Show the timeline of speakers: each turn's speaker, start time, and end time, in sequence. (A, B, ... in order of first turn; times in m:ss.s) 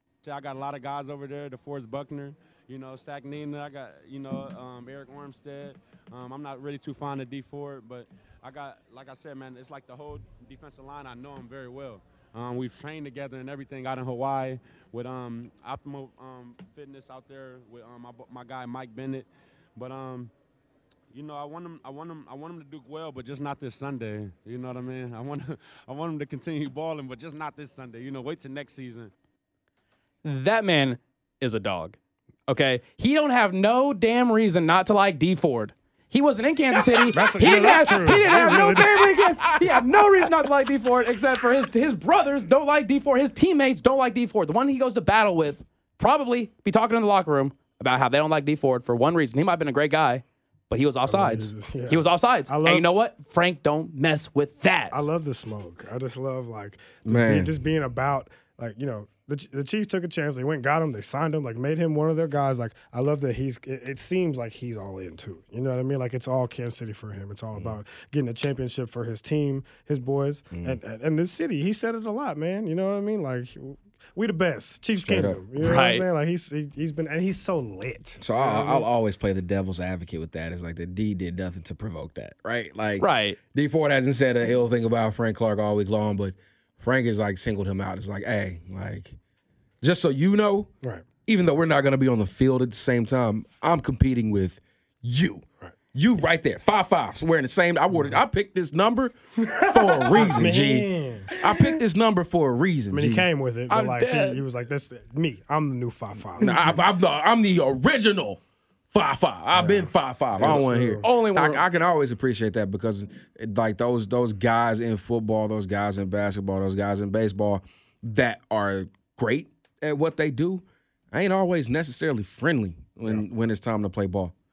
0:00.2-0:20.3 A
0:21.1-0:29.1 A
0:30.2-0:55.1 B
0:37.1-0:39.2 C
0:38.4-0:40.3 D
0:51.0-0:52.9 C
0:54.9-1:18.9 C
0:57.0-0:57.5 D
1:15.0-1:15.4 D
1:15.6-1:16.0 B
1:18.2-1:29.2 D
1:23.0-1:23.4 B
1:29.8-1:30.7 D
1:31.2-1:43.3 D
1:39.4-1:41.4 C
1:42.9-1:46.8 C
1:43.7-1:44.4 B
1:46.4-2:04.3 D
1:49.5-1:51.0 C
1:51.0-1:51.6 B